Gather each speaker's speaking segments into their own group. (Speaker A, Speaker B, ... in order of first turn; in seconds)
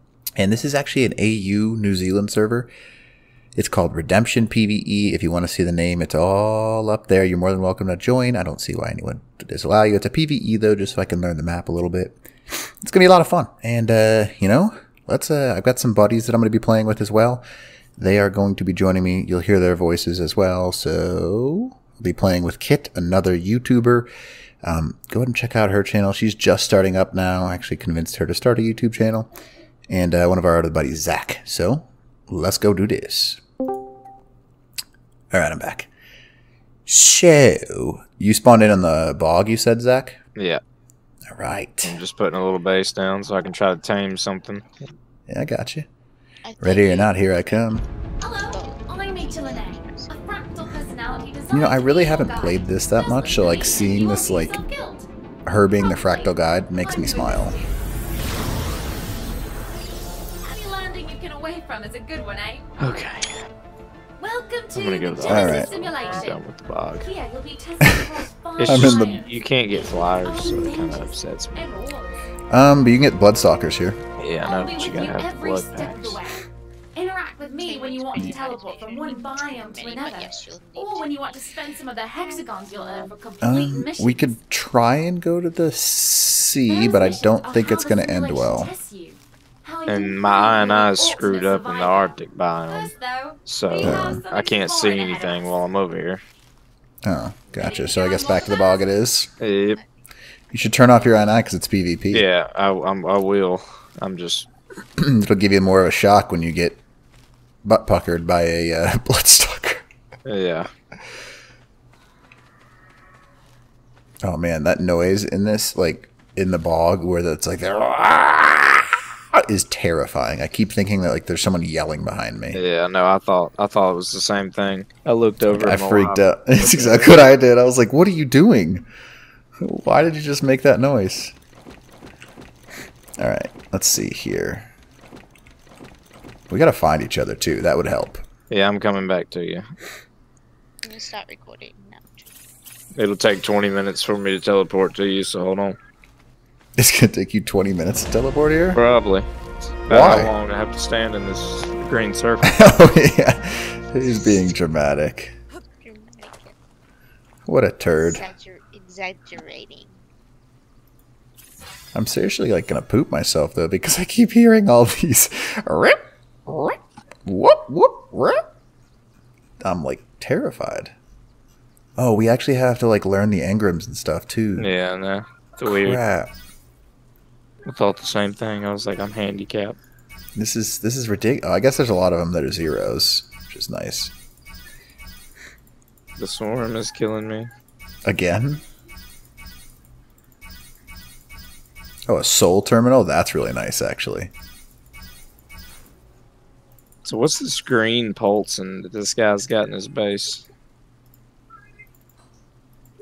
Speaker A: 0.4-2.7, 3.5-17.4, 18.0-24.1, 24.6-29.3, 29.9-33.4, 35.3-35.9, 36.9-40.2, 41.3-42.0, 45.3-45.9, 46.6-47.8, 51.5-54.6, 55.5-57.6, 65.3-65.7, 68.7-69.2, 72.5-74.0, 83.4-88.7, 93.8-94.2, 97.0-99.3, 100.5-102.3, 105.0-106.8, 107.6-109.9, 114.2-122.6, 125.4-128.9, 129.6-131.3, 133.2-134.7, 136.5-138.2, 146.8-148.8, 149.9-150.3, 152.4-155.3, 157.4-158.2, 161.9-168.4, 169.6-170.9, 172.0-174.7, 175.7-176.3, 180.3-184.1, 188.0-188.6, 192.1-194.3
Speaker B: 40.4-40.6, 41.8-44.8, 62.8-63.5, 64.7-67.1, 68.6-71.7, 74.2-76.2, 89.9-92.9, 93.5-96.2, 99.4-99.8, 102.1-104.5, 110.3-110.7, 122.5-127.2, 138.5-139.7, 142.9-145.8, 148.7-149.3, 149.8-152.6, 174.6-176.0, 177.7-179.8, 186.2-187.5, 197.0-200.4
Speaker C: 46.5-47.8, 48.4-50.1, 77.6-81.4, 140.8-142.3, 153.9-154.5, 155.8-156.6, 158.0-160.0
Speaker D: 48.2-55.1, 55.8-57.8, 60.4-62.8, 64.2-66.4, 67.0-72.2, 74.4-84.3, 86.7-92.2, 92.7-95.6, 97.6-98.9